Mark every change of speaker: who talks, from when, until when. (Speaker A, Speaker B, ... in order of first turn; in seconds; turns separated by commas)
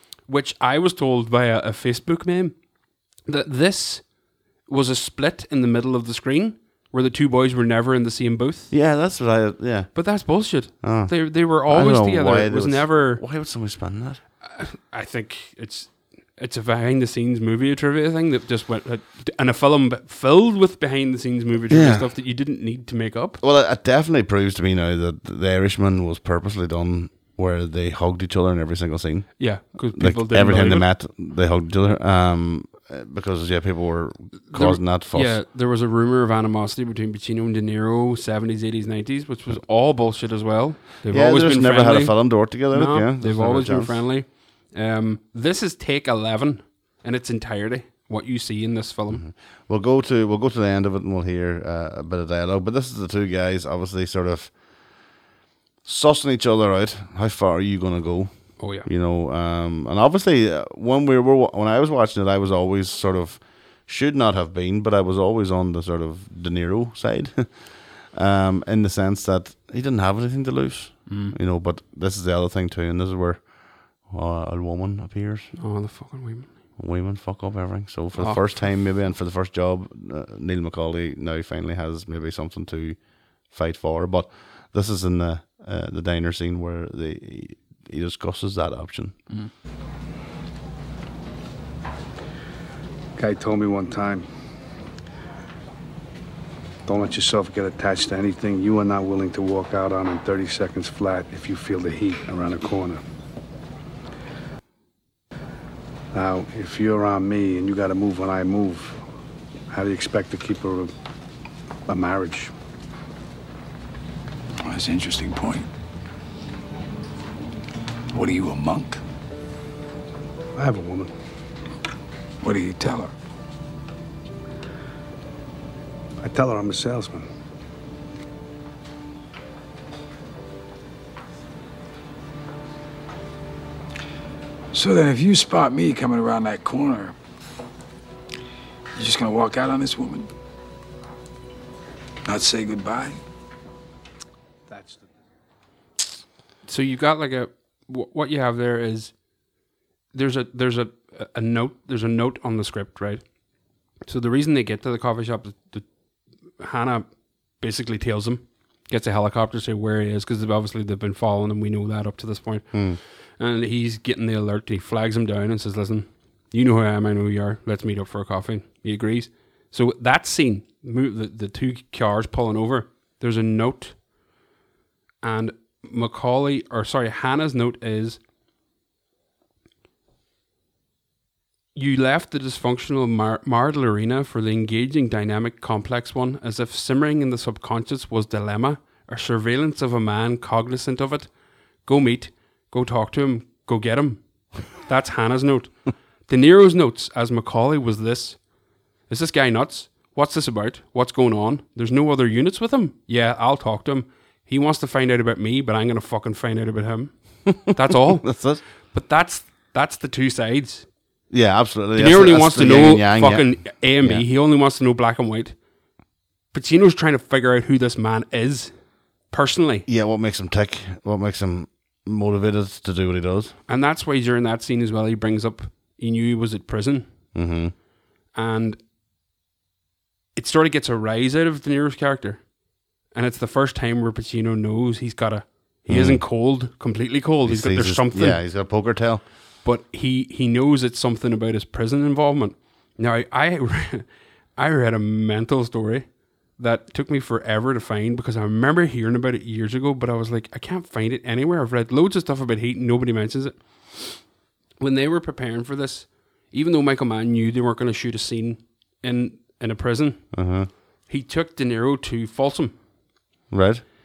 Speaker A: 0.3-2.5, Speaker A: 3.2-4.1, Speaker A: 4.7-8.7, Speaker B: 8.7-9.9, Speaker A: 9.9-13.2, Speaker B: 10.6-14.2, Speaker A: 14.4-23.4, Speaker B: 21.7-22.1, Speaker B: 23.4-35.4, Speaker A: 29.4-30.9, Speaker A: 34.5-49.2, Speaker B: 41.1-44.0, Speaker B: 49.1-54.5, Speaker B: 55.8-75.5, Speaker A: 58.6-58.9, Speaker A: 71.1-71.3, Speaker A: 75.5-76.5, Speaker B: 76.8-89.2, Speaker A: 78.1-78.7, Speaker C: 93.2-94.2, Speaker C: 96.8-103.0, Speaker C: 106.1-109.0, Speaker C: 109.7-110.9, Speaker C: 111.9-112.5, Speaker D: 114.6-115.7, Speaker D: 118.1-119.0, Speaker C: 120.5-121.1, Speaker D: 122.4-123.1, Speaker C: 126.2-127.3, Speaker D: 134.7-137.1, Speaker D: 138.9-140.3, Speaker D: 142.2-143.2, Speaker C: 144.7-145.0, Speaker A: 146.7-149.1, Speaker A: 150.1-153.2, Speaker A: 154.1-155.8, Speaker A: 156.6-157.1, Speaker A: 157.6-162.8, Speaker B: 162.7-163.0, Speaker A: 163.4-174.0, Speaker A: 175.2-178.2, Speaker A: 181.7-191.3, Speaker A: 191.8-198.4, Speaker A: 199.1-208.3, Speaker B: 207.7-208.6, Speaker A: 208.9-210.9, Speaker B: 211.3-214.2, Speaker A: 211.9-215.5, Speaker A: 216.5-218.7, Speaker A: 219.3-219.8, Speaker B: 219.9-223.5, Speaker A: 223.7-227.1, Speaker B: 227.3-227.7, Speaker A: 228.3-228.8, Speaker A: 230.3-232.4, Speaker A: 233.1-238.4, Speaker B: 235.9-236.2, Speaker B: 237.4-239.2, Speaker A: 239.6-254.2, Speaker A: 254.8-260.2, Speaker B: 260.3-260.7, Speaker A: 261.1-262.7, Speaker B: 263.5-263.8